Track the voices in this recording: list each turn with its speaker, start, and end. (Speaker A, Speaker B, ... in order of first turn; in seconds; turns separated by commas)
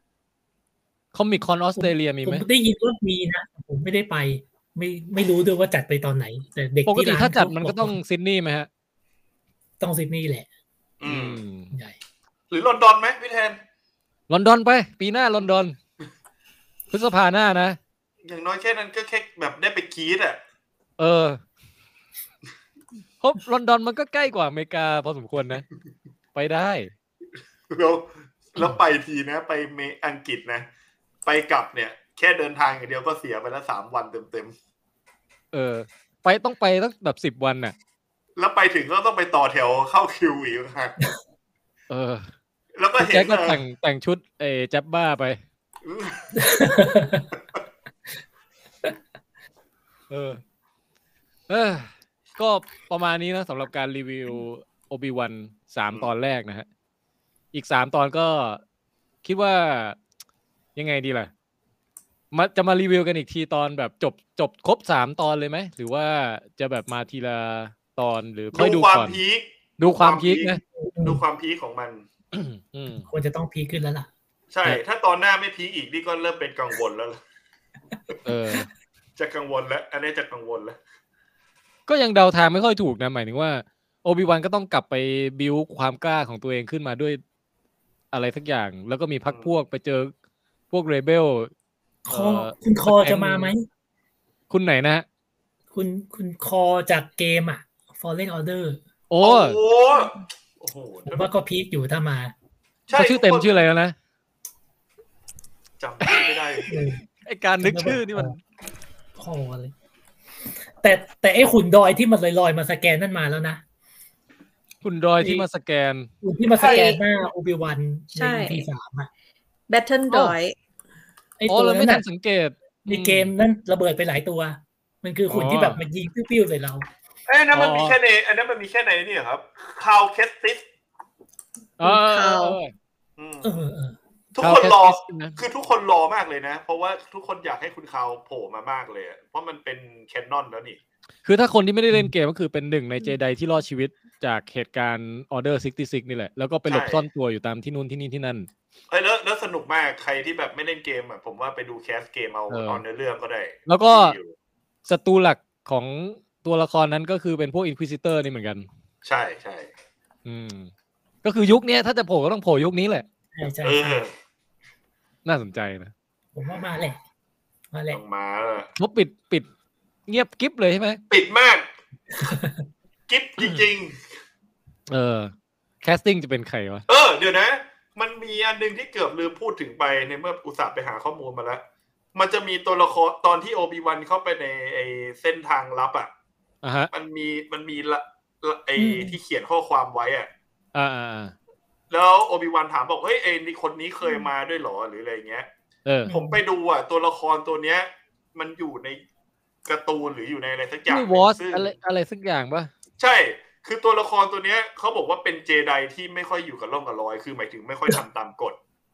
Speaker A: 1.1-2.4, Speaker B: 1.8-8.0, Speaker A: 6.8-8.7, Speaker B: 9.8-10.5, Speaker C: 11.0-11.4, Speaker A: 11.0-11.7, Speaker B: 11.7-12.0, Speaker C: 12.5-13.6, Speaker A: 14.3-15.8, Speaker A: 16.9-17.8, Speaker C: 18.2-20.4, Speaker A: 21.0-21.4, Speaker A: 23.2-25.6, Speaker A: 26.3-26.9, Speaker C: 27.7-30.7, Speaker C: 31.2-34.5, Speaker A: 35.5-37.7, Speaker C: 38.4-41.0, Speaker A: 41.9-42.3, Speaker C: 42.7-43.6, Speaker A: 43.0-45.4, Speaker C: 45.8-46.7, Speaker B: 46.4-47.3, Speaker A: 50.1-50.4, Speaker A: 51.5-56.6, Speaker A: 57.5-58.6, Speaker A: 59.2-60.0, Speaker A: 60.8-61.3, Speaker A: 62.3-69.2, Speaker C: 68.5-72.0, Speaker A: 69.8-70.6, Speaker B: 70.8-71.2, Speaker A: 72.3-73.1, Speaker B: 72.9-74.1, Speaker C: 74.5-77.2, Speaker A: 78.2-78.7, Speaker C: 79.2-80.8, Speaker A: 81.9-87.2, Speaker A: 88.1-90.1, Speaker C: 89.3-89.5, Speaker A: 90.7-91.5, Speaker B: 92.0-93.7, Speaker A: 92.1-93.5, Speaker A: 94.5-95.0, Speaker B: 95.7-98.8, Speaker A: 99.1-99.6, Speaker C: 99.2-101.3, Speaker B: 101.1-102.3, Speaker C: 102.9-103.6, Speaker A: 102.9-103.9, Speaker C: 105.8-106.7, Speaker B: 106.7-107.0, Speaker A: 107.2-108.4, Speaker B: 107.6-108.3, Speaker B: 109.2-109.7, Speaker B: 110.8-113.6, Speaker A: 114.8-116.1, Speaker B: 115.2-115.5, Speaker B: 116.2-119.1, Speaker C: 116.6-116.8, Speaker D: 116.6-117.0, Speaker D: 118.1-118.7, Speaker D: 119.7-120.5, Speaker B: 121.4-122.0, Speaker A: 121.5-123.3, Speaker B: 122.8-126.8, Speaker A: 125.3-125.8, Speaker C: 127.3-130.6, Speaker A: 127.5-128.0, Speaker A: 131.8-132.7, Speaker D: 131.8-132.6, Speaker C: 133.2-133.5, Speaker B: 133.4-134.0, Speaker C: 134.3-140.8, Speaker A: 134.4-135.4, Speaker A: 141.2-148.5, Speaker C: 146.7-147.0, Speaker C: 148.9-154.3, Speaker A: 152.5-152.8, Speaker A: 153.7-154.2, Speaker A: 154.8-158.7, Speaker C: 159.0-159.7, Speaker A: 160.2-160.7, Speaker A: 161.2-163.0, Speaker B: 163.3-164.0, Speaker C: 163.6-164.1, Speaker A: 165.2-165.9, Speaker B: 166.3-167.0, Speaker B: 167.7-168.0, Speaker C: 167.9-168.7, Speaker A: 168.8-169.5, Speaker A: 170.1-171.0, Speaker C: 171.1-171.6, Speaker B: 172.1-172.6, Speaker C: 173.1-174.0, Speaker A: 174.9-176.8, Speaker C: 176.9-181.6, Speaker C: 182.1-186.1, Speaker A: 186.6-186.9, Speaker C: 186.9-190.3, Speaker B: 188.8-189.2, Speaker A: 190.7-191.3, Speaker C: 191.9-195.5, Speaker B: 196.1-196.4, Speaker C: 196.1-199.0, Speaker C: 199.7-201.7, Speaker A: 200.9-202.7, Speaker C: 203.0-208.6